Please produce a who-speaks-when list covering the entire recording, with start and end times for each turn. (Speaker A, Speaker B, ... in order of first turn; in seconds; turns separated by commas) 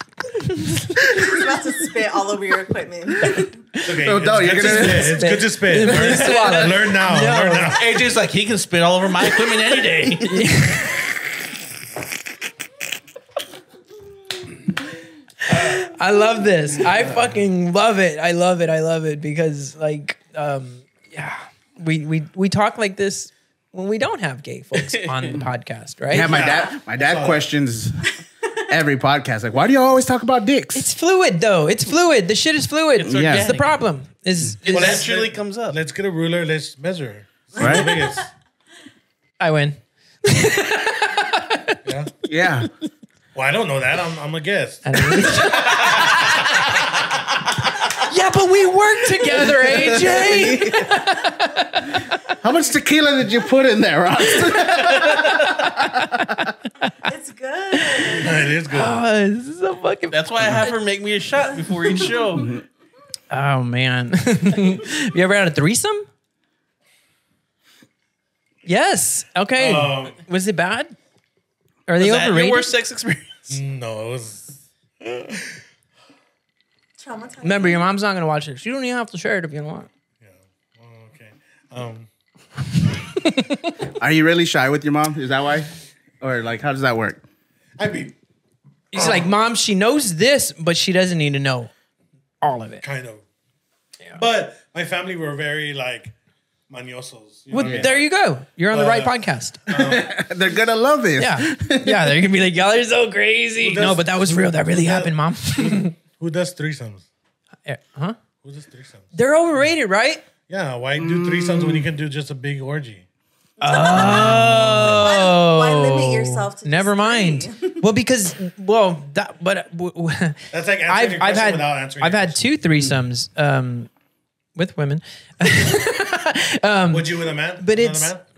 Speaker A: 0.5-0.9, Speaker B: 1.0-3.7, Speaker C: 3.8-7.9, Speaker D: 4.0-5.2, Speaker A: 4.5-7.8, Speaker E: 5.9-6.8, Speaker E: 7.7-10.4, Speaker A: 10.2-11.1, Speaker A: 15.5-26.4, Speaker E: 24.7-25.4, Speaker D: 26.1-28.1, Speaker C: 26.2-27.4, Speaker D: 28.7-30.9, Speaker A: 30.7-35.0, Speaker E: 33.0-33.8, Speaker D: 33.1-33.5, Speaker E: 34.6-35.8, Speaker C: 34.7-38.3, Speaker D: 37.5-37.9, Speaker B: 37.6-38.2, Speaker A: 39.4-41.8, Speaker C: 41.8-42.1, Speaker D: 42.2-42.7, Speaker C: 43.3-46.4, Speaker A: 44.9-46.5, Speaker A: 48.0-52.0, Speaker D: 49.5-50.9, Speaker D: 52.4-55.2, Speaker A: 54.2-56.5, Speaker B: 57.0-58.6, Speaker A: 57.8-60.8, Speaker C: 58.2-59.0, Speaker E: 60.1-62.5, Speaker B: 61.5-62.4, Speaker D: 62.4-62.6, Speaker A: 63.3-66.1, Speaker A: 68.7-70.9, Speaker C: 69.6-70.2, Speaker A: 71.9-72.7, Speaker E: 72.0-73.6, Speaker C: 73.5-75.6, Speaker B: 77.0-77.9, Speaker A: 77.4-79.9, Speaker C: 80.2-82.1, Speaker D: 83.9-87.2, Speaker C: 87.8-88.1, Speaker A: 88.9-91.7, Speaker C: 89.0-89.2, Speaker A: 92.4-92.8, Speaker C: 92.8-93.2, Speaker C: 94.1-96.1, Speaker C: 96.7-98.1, Speaker A: 97.5-99.7, Speaker D: 97.6-97.9, Speaker C: 98.7-100.1, Speaker D: 99.7-102.3, Speaker A: 101.2-105.9, Speaker C: 103.6-107.1, Speaker A: 107.7-108.2, Speaker C: 108.4-109.1, Speaker A: 109.1-110.2, Speaker C: 110.5-113.0, Speaker D: 111.0-111.9, Speaker B: 113.6-117.8, Speaker A: 113.6-123.9, Speaker C: 120.5-122.4, Speaker A: 124.5-128.1, Speaker C: 126.9-128.2